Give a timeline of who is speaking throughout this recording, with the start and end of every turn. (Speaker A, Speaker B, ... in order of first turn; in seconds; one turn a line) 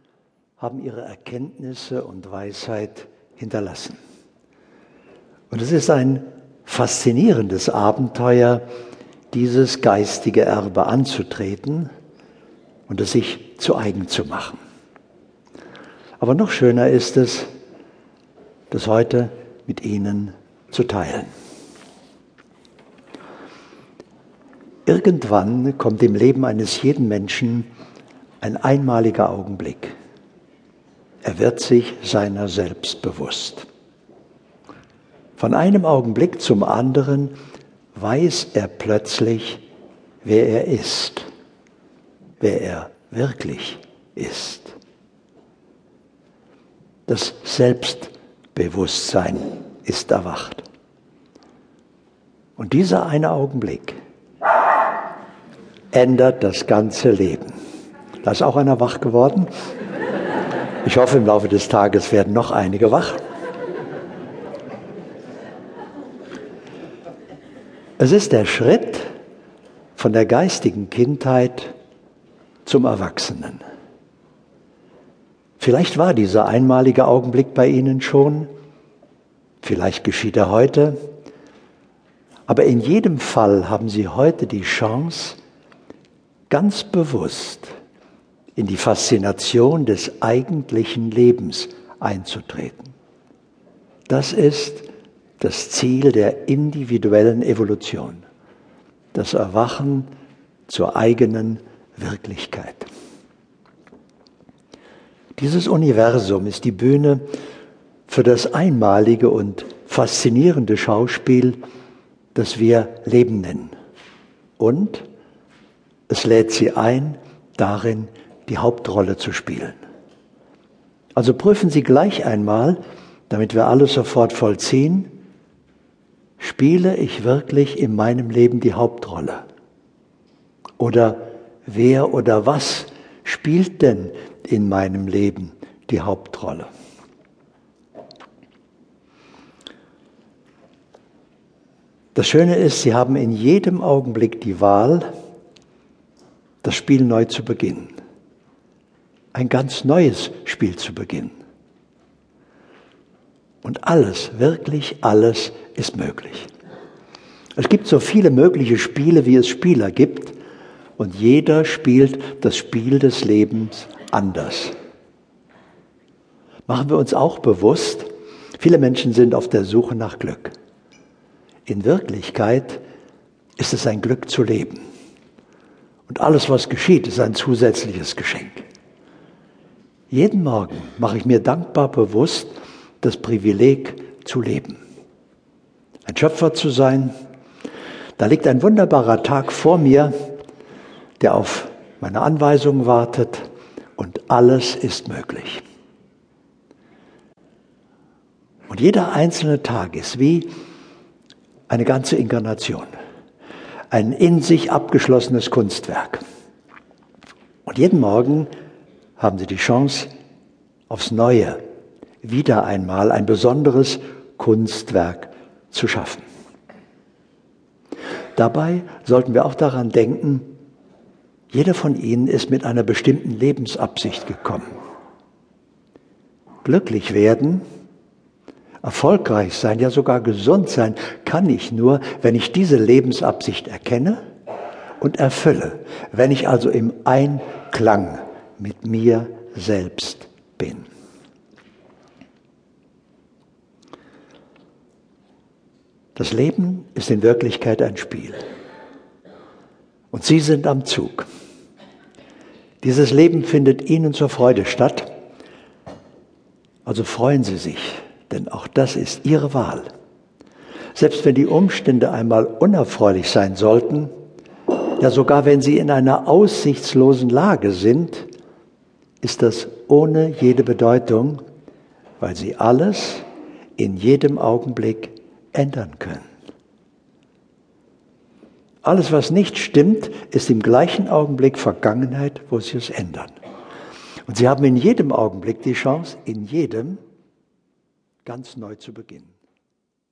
Speaker A: 0.6-4.0
Speaker A: 5.5-8.6
Speaker A: 9.3-11.9
Speaker A: 12.9-14.6
Speaker A: 16.2-17.5
Speaker A: 18.7-21.3
Speaker A: 24.9-27.7
Speaker A: 28.4-29.9
Speaker A: 31.2-33.6
Speaker A: 35.4-37.3
Speaker A: 37.9-39.6
Speaker A: 40.2-41.2
Speaker A: 42.4-44.8
Speaker A: 47.1-50.6
Speaker A: 52.6-54.0
Speaker A: 55.9-57.5
Speaker A: 58.2-59.5
Speaker A: 60.8-63.2
Speaker A: 68.0-69.0
Speaker A: 70.0-71.7
Speaker A: 72.6-73.6
Speaker A: 75.6-78.5
Speaker A: 79.6-81.0
Speaker A: 82.5-85.4
Speaker A: 86.5-87.7
Speaker A: 88.5-92.9
Speaker A: 94.1-94.9
Speaker A: 95.4-98.2
Speaker A: 99.1-100.1
Speaker A: 100.7-102.9
Speaker A: 105.3-107.2
Speaker A: 108.1-111.6
Speaker A: 112.3-113.7
Speaker A: 114.6-115.0
Speaker A: 116.1-119.8
Speaker A: 121.2-122.8
Speaker A: 123.3-125.1
Speaker A: 126.4-129.4
Speaker A: 130.8-136.7
Speaker A: 142.1-145.1
Speaker A: 146.6-147.9
Speaker A: 149.3-151.3
Speaker A: 153.6-156.5
Speaker A: 157.6-160.3
Speaker A: 161.0-164.7
Speaker A: 166.7-168.1
Speaker A: 168.6-170.5
Speaker A: 171.7-172.8
Speaker A: 173.6-174.8
Speaker A: 176.1-178.6
Speaker A: 180.1-184.8
Speaker A: 186.1-187.1
Speaker A: 188.2-190.1
Speaker A: 191.2-193.4
Speaker A: 194.0-195.6
Speaker A: 198.7-200.5
Speaker A: 201.7-202.9
Speaker A: 203.9-206.2
Speaker A: 207.7-208.5
Speaker A: 209.2-210.1
Speaker A: 210.9-211.6
Speaker A: 212.2-216.2
Speaker A: 218.3-220.5
Speaker A: 221.5-224.7
Speaker A: 226.6-227.6
Speaker A: 228.8-234.2
Speaker A: 235.0-240.9
Speaker A: 246.2-248.4
Speaker A: 250.1-251.3
Speaker A: 252.8-255.1
Speaker A: 256.8-259.9
Speaker A: 260.9-264.1
Speaker A: 265.0-268.3
Speaker A: 269.2-271.4
Speaker A: 272.2-273.2
Speaker A: 273.8-276.2
Speaker A: 278.8-283.3
Speaker A: 284.3-287.0
Speaker A: 288.2-289.3